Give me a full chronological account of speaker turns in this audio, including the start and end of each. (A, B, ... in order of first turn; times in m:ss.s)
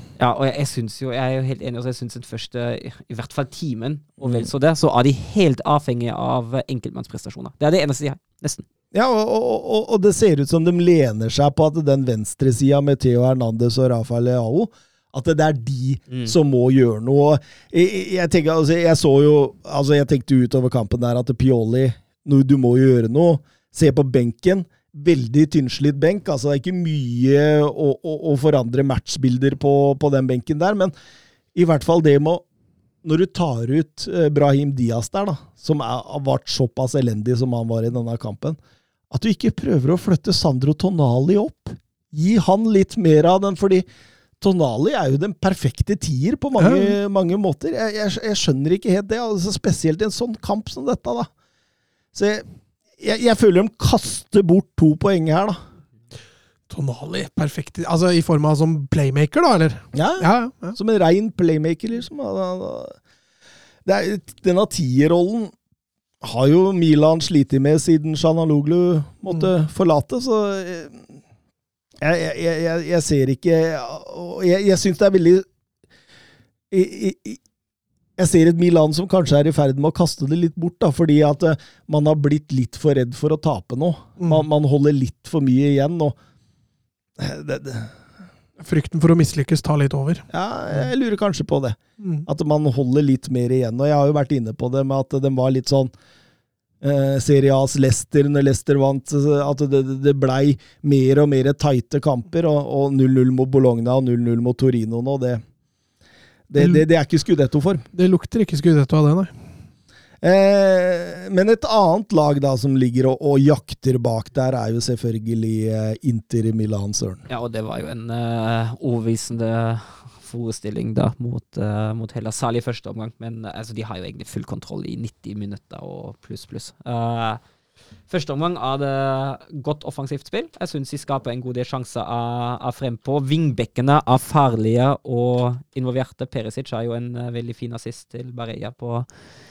0:00.2-0:08.6 A
0:04.2-0:04.5 B
0:08.9-0:30.9 B
0:16.1-0:16.3 A
0:31.6-0:32.4 B
0:33.0-0:38.6 B
0:39.1-0:43.9 B
0:44.4-0:51.3 B
0:46.6-0:46.9 C
0:52.1-0:52.5 B
0:53.0-0:55.6 B
0:56.7-1:00.8 C
0:59.9-1:03.0 B
1:03.8-1:05.5 B
1:06.2-1:11.1 B
1:12.0-1:15.4 B
1:16.7-1:17.4 B
1:18.2-1:26.2 B
1:24.2-1:24.4 C
1:27.2-1:27.9 B
1:28.6-1:30.9 C
1:30.3-1:35.9 B
1:32.0-1:32.3 C
1:36.8-1:45.4 B
1:46.5-1:47.8 B
1:47.9-1:49.3 C
1:50.2-1:57.2 B
1:57.3-2:07.4 A
2:08.1-2:19.1 A